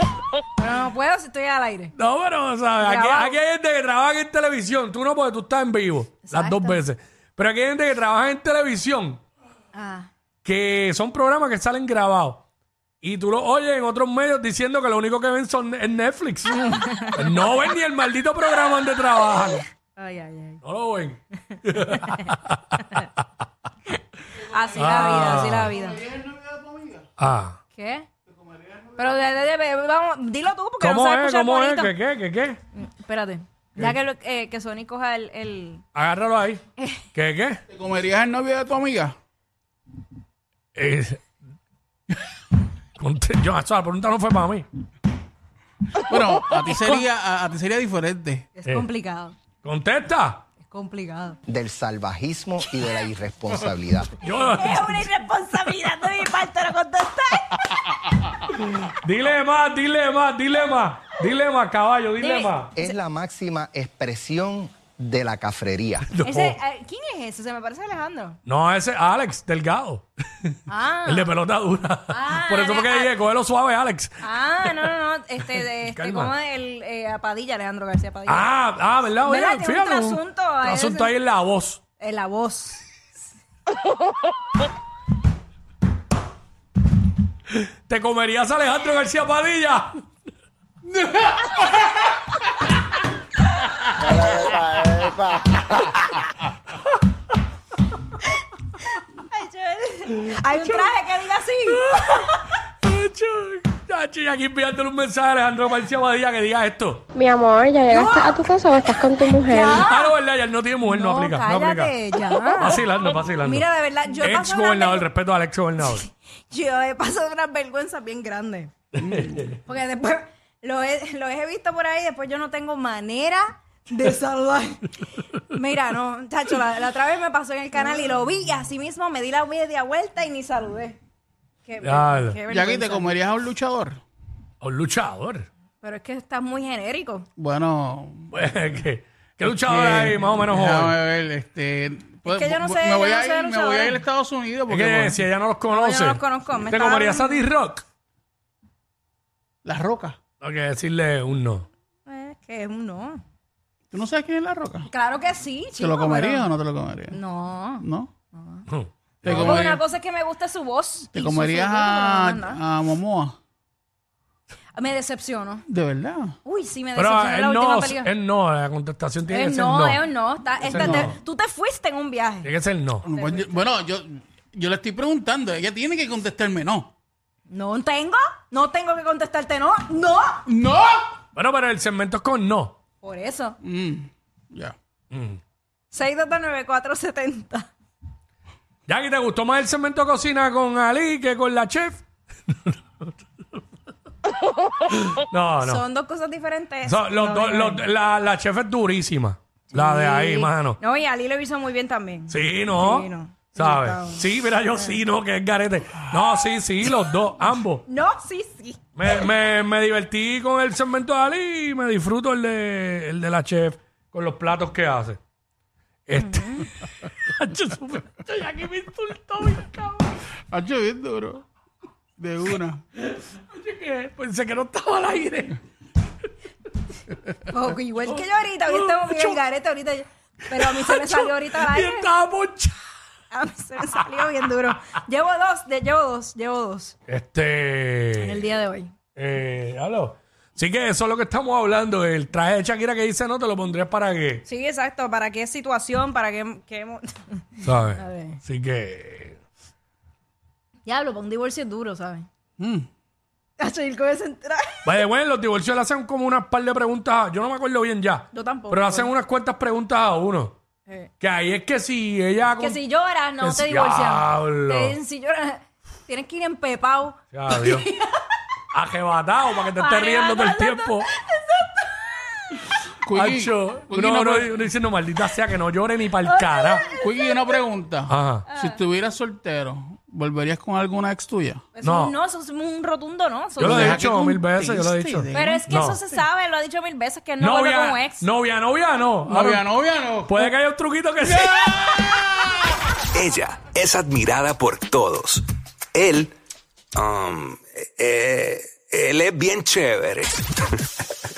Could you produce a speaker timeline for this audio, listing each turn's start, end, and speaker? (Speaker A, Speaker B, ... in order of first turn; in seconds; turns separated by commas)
Speaker A: 0.6-1.9, Speaker B: 1.9-9.2, Speaker A: 2.8-3.4, Speaker A: 6.3-6.8, Speaker A: 9.7-10.1, Speaker B: 10.4-12.4, Speaker B: 13.0-19.7, Speaker A: 16.5-17.3, Speaker A: 19.9-20.6, Speaker B: 20.6-23.1, Speaker A: 21.5-22.3, Speaker C: 24.4-27.1, Speaker A: 24.5-26.0, Speaker B: 24.7-25.7, Speaker B: 27.2-27.6, Speaker A: 27.7-28.1, Speaker C: 28.3-29.0, Speaker A: 28.9-31.9, Speaker B: 30.8-32.6, Speaker A: 32.7-35.8, Speaker B: 35.9-36.6, Speaker B: 37.1-37.6, Speaker C: 37.7-39.1, Speaker B: 40.7-41.2, Speaker B: 43.0-44.7, Speaker C: 46.0-48.5, Speaker A: 48.5-49.3, Speaker B: 49.6-50.4, Speaker A: 50.6-51.4, Speaker D: 51.5-54.1, Speaker B: 54.2-55.1, Speaker A: 54.3-58.0, Speaker B: 58.4-62.7, Speaker A: 62.2-62.9, Speaker D: 62.7-66.1, Speaker B: 66.0-66.6, Speaker A: 66.2-68.4, Speaker B: 68.5-74.8, Speaker A: 70.7-71.3, Speaker A: 72.1-73.1, Speaker A: 74.2-78.5, Speaker B: 75.6-76.3, Speaker B: 78.2-81.8, Speaker A: 79.2-81.1, Speaker A: 82.0-82.9, Speaker B: 87.5-90.0, Speaker D: 94.2-95.2, Speaker A: 99.1-102.5, Speaker B: 100.2-100.9, Speaker B: 101.7-107.1, Speaker E: 107.2-109.9, Speaker A: 107.9-108.4, Speaker A: 109.5-110.1, Speaker B: 109.8-113.7, Speaker A: 110.8-115.1, Speaker B: 114.2-116.0, Speaker A: 115.8-118.7, Speaker B: 118.9-119.6, Speaker C: 119.0-119.4, Speaker A: 119.6-131.0, Speaker A: 131.7-133.2, Speaker B: 131.8-132.4, Speaker C: 132.5-134.0, Speaker B: 134.6-135.5, Speaker A: 135.8-137.2, Speaker C: 137.4-138.3, Speaker B: 138.3-141.0, Speaker C: 139.5-145.2, Speaker A: 142.2-144.0, Speaker B: 144.7-147.8, Speaker A: 145.7-147.4, Speaker C: 149.6-150.2, Speaker B: 150.4-151.7, Speaker A: 152.1-153.2, Speaker C: 153.9-154.9, Speaker A: 154.9-156.5, Speaker C: 155.8-157.2, Speaker A: 157.1-158.6, Speaker C: 157.8-158.1, Speaker B: 158.7-159.7, Speaker C: 159.2-159.8, Speaker A: 159.3-162.6, Speaker C: 161.1-163.3, Speaker A: 164.7-165.6, Speaker C: 165.7-166.3, Speaker A: 166.4-168.1, Speaker B: 167.0-170.0, Speaker A: 169.3-172.5, Speaker B: 170.6-171.2, Speaker C: 170.8-171.1, Speaker B: 172.4-173.1, Speaker C: 173.0-176.9, Speaker A: 173.1-173.6, Speaker A: 177.5-180.4, Speaker C: 180.5-181.1, Speaker B: 181.3-182.8, Speaker A: 183.0-183.6, Speaker C: 183.6-184.7, Speaker B: 185.1-185.4, Speaker A: 185.9-187.7, Speaker B: 188.9-193.6, Speaker B: 194.9-195.8, Speaker A: 195.6-197.8, Speaker B: 196.8-200.8, Speaker A: 199.7-204.2, Speaker B: 202.3-207.8, Speaker A: 207.9-208.8, Speaker B: 208.9-215.2, Speaker B: 216.1-220.2, Speaker A: 216.2-216.7, Speaker C: 220.5-221.4, Speaker C: 222.2-222.8, Speaker B: 223.0-225.6, Speaker A: 227.5-232.1, Speaker B: 227.9-229.4, Speaker B: 230.5-232.9, Speaker A: 233.3-236.9, Speaker B: 237.1-238.4, Speaker A: 238.2-238.9, Speaker B: 239.2-244.4, Speaker A: 244.5-248.4, Speaker B: 247.6-249.4, Speaker A: 250.8-252.3, Speaker C: 252.6-252.9, Speaker A: 253.6-254.8, Speaker B: 254.8-260.5, Speaker A: 258.3-259.1, Speaker B: 261.2-262.8, Speaker A: 262.6-268.4, Speaker B: 263.4-265.0, Speaker B: 267.3-267.9, Speaker B: 268.7-271.1, Speaker A: 269.8-272.6, Speaker B: 272.6-276.9, Speaker C: 273.0-274.6, Speaker A: 276.2-277.4, Speaker C: 276.9-281.6, Speaker B: 278.1-278.5, Speaker A: 278.5-278.8, Speaker A: 281.8-284.0, Speaker B: 281.8-282.1, Speaker C: 283.6-285.6, Speaker B: 283.6-286.0, Speaker A: 285.4-288.2, Speaker B: 287.4-289.6, Speaker C: 289.2-290.5, Speaker B: 290.2-292.1, Speaker C: 291.2-292.6, Speaker F: 293.1-295.4, Speaker F: 295.9-296.3, Speaker F: 297.0-300.3